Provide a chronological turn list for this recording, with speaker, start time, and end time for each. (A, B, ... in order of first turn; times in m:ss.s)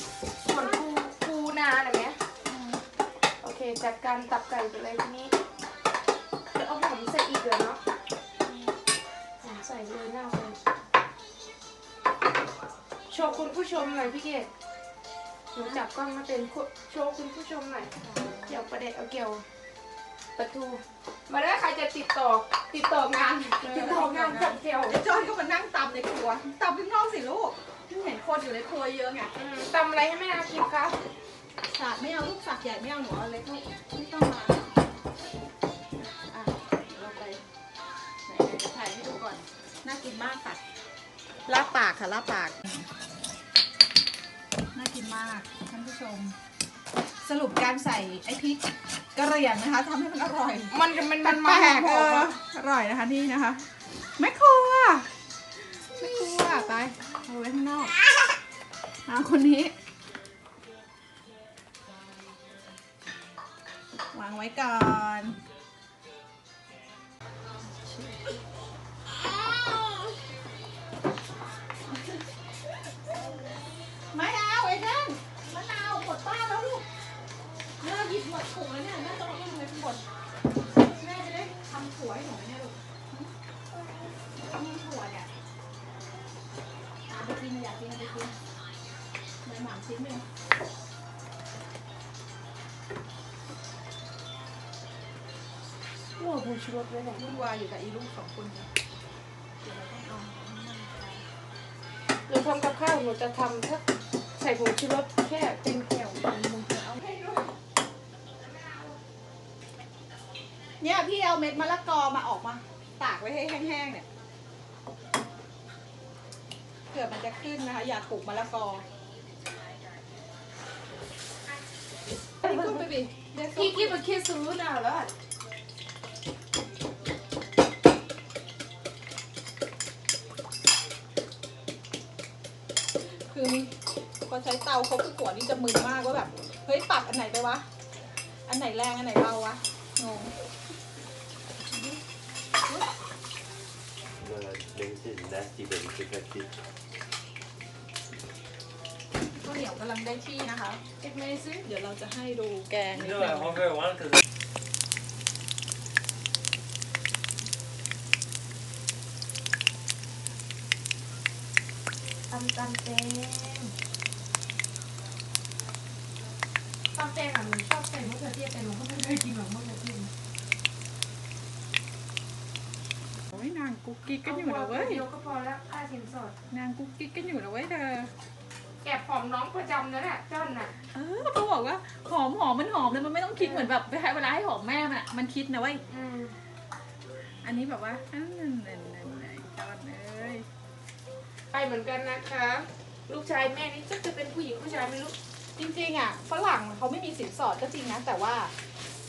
0:00.4-0:02.2 A
0:02.4-0:02.8 B
0:03.4-0:05.3 A
0:06.5-0:07.8 A
0:08.4-0:08.8 B
0:09.4-0:10.6 A
0:13.1-0:14.5 A
0:13.1-0:14.2 B
0:15.5-0:17.9 A
0:18.0-0:18.6 B
0:18.5-0:19.4 A
0:20.4-0:25.0 A
0:23.6-0:29.3 B
0:29.3-0:31.0 A
0:31.7-0:34.7 B
0:36.0-0:37.4 B
0:38.3-0:40.6 B
0:41.5-0:42.8 B
0:44.7-0:46.4 B
0:47.2-0:57.9 B
0:50.7-0:52.3 A
0:59.0-0:59.7 B
1:04.1-1:05.4 B
1:07.6-1:08.4 B
1:14.1-1:16.8 B
1:17.8-1:20.0 B
1:20.7-1:23.3 B
1:24.4-1:25.3 B
1:27.1-1:28.4 B
1:29.4-1:30.2 B
1:36.2-1:37.3 A
1:37.1-1:38.7 B
1:39.6-1:41.2 B
1:42.3-1:43.8 A
1:44.4-1:47.0 A
1:47.0-1:47.5 B
1:50.8-1:54.0 B
1:56.9-1:58.8 B
2:02.4-2:04.0 B
2:03.5-2:05.1 A
2:13.0-2:17.6 B
2:18.5-2:20.3 B
2:24.2-2:26.5 C
2:29.3-2:30.8 B
2:31.0-2:31.6 A
2:31.6-2:33.7 B
2:33.2-2:34.2 C
2:42.3-2:43.7 A
2:46.9-2:50.1 A
2:53.3-2:55.0 B
2:54.2-2:56.3 A
2:56.5-2:58.1 B
2:58.8-3:00.7 A
3:00.9-3:05.8 B
3:03.4-3:03.7 A
3:05.9-3:06.4 A
3:07.4-3:10.4 B
3:11.5-3:15.1 A
3:15.6-3:18.5 B